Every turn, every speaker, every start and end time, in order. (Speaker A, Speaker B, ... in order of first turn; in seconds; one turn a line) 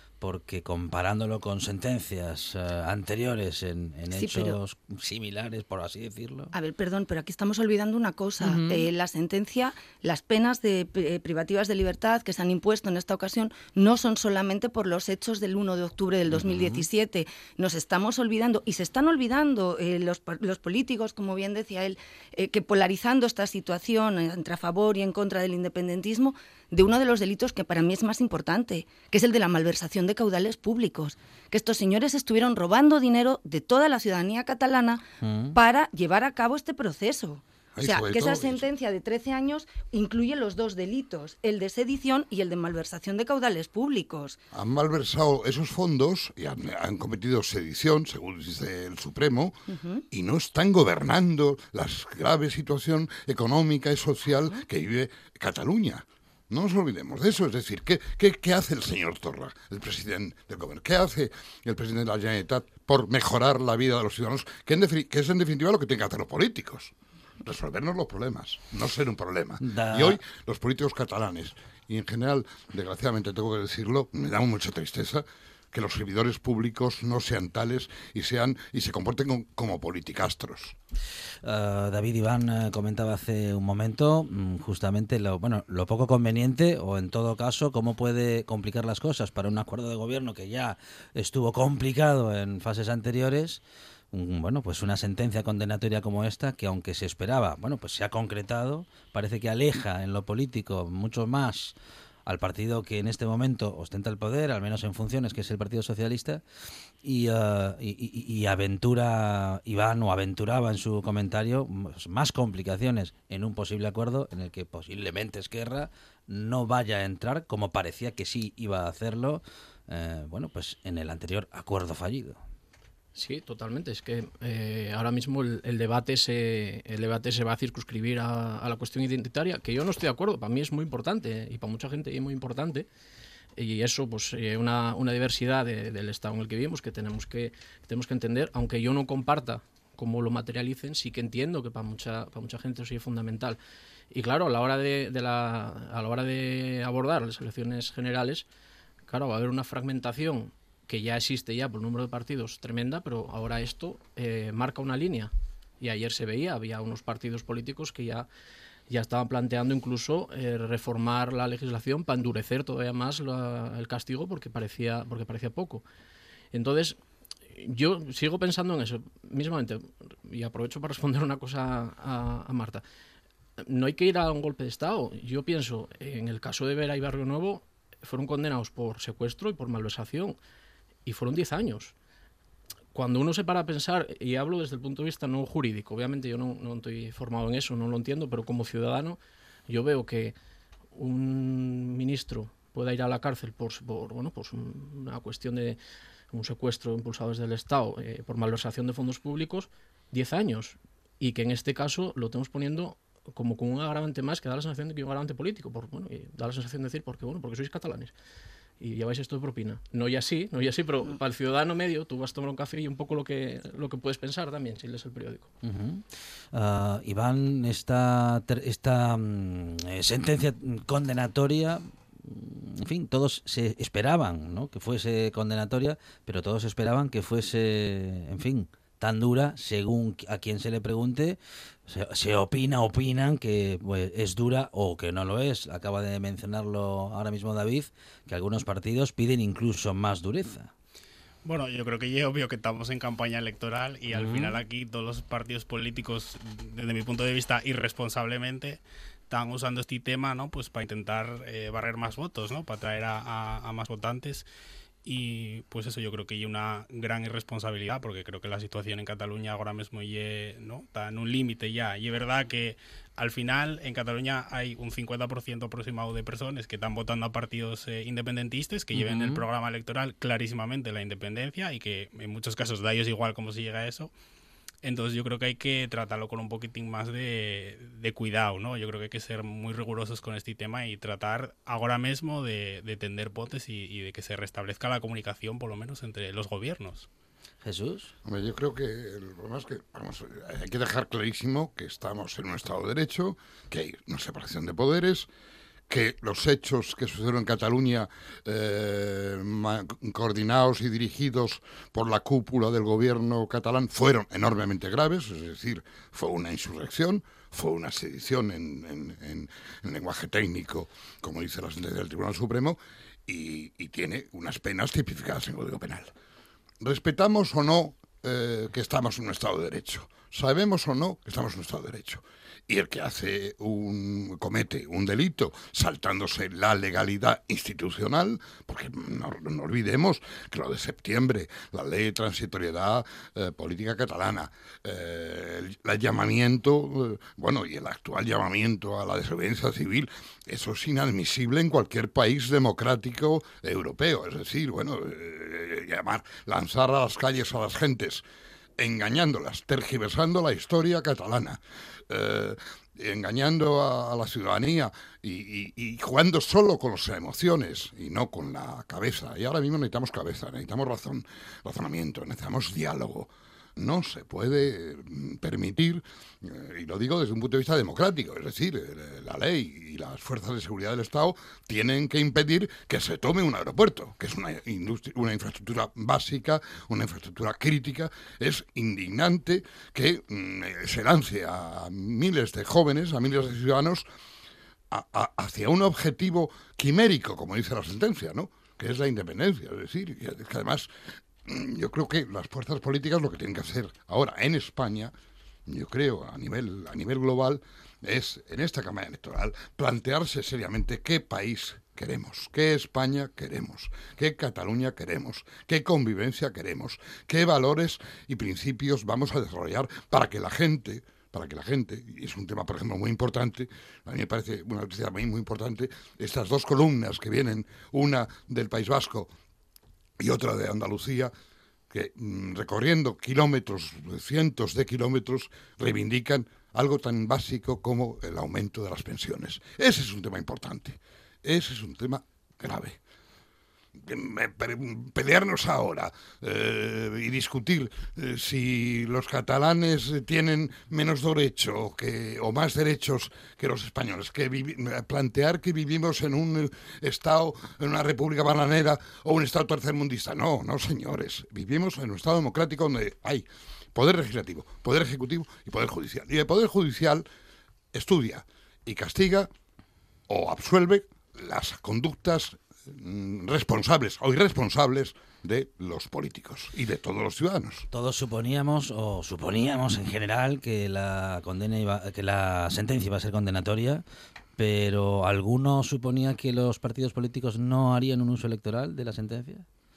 Speaker A: 0.2-6.5
Speaker B: 4.1-4.6
Speaker B: 6.5-35.0
Speaker A: 8.4-8.9
Speaker A: 16.3-16.9
Speaker A: 35.2-35.6
Speaker B: 35.5-44.4
Speaker C: 37.7-38.6
Speaker C: 44.5-49.5
Speaker B: 49.7-50.0
Speaker C: 50.1-80.7
Speaker A: 69.6-70.2
Speaker A: 81.4-93.6
Speaker A: 94.1-101.7
Speaker A: 102.2-106.4
Speaker A: 107.0-122.4
Speaker D: 123.1-132.9
Speaker D: 133.6-143.6
Speaker D: 144.1-148.5
Speaker D: 149.1-158.3
Speaker D: 158.9-165.8
Speaker D: 166.5-167.0
Speaker D: 167.5-172.8
Speaker D: 173.6-180.4
Speaker D: 181.1-181.9
Speaker D: 182.9-190.3
Speaker D: 190.9-195.8
Speaker D: 196.3-208.1
Speaker D: 208.8-215.5
Speaker A: 215.6-240.7
Speaker E: 241.4-254.5
Speaker A: 244.1-244.6
Speaker E: 255.0-274.1
Speaker A: 268.9-269.4
Speaker E: 274.8-287.1
Speaker A: 287.6-288.1
Speaker C: 288.2-295.3
Speaker C: 295.9-316.1
Speaker C: 316.8-348.2
Speaker C: 348.8-384.1
Speaker C: 384.9-390.9
Speaker C: 391.4-395.1
Speaker C: 395.7-419.3
Speaker C: 420.2-421.3
Speaker C: 421.9-433.0
Speaker C: 434.0-457.2
Speaker C: 457.9-459.5
Speaker C: 460.3-467.9
Speaker A: 467.9-474.0
Speaker A: 474.6-479.6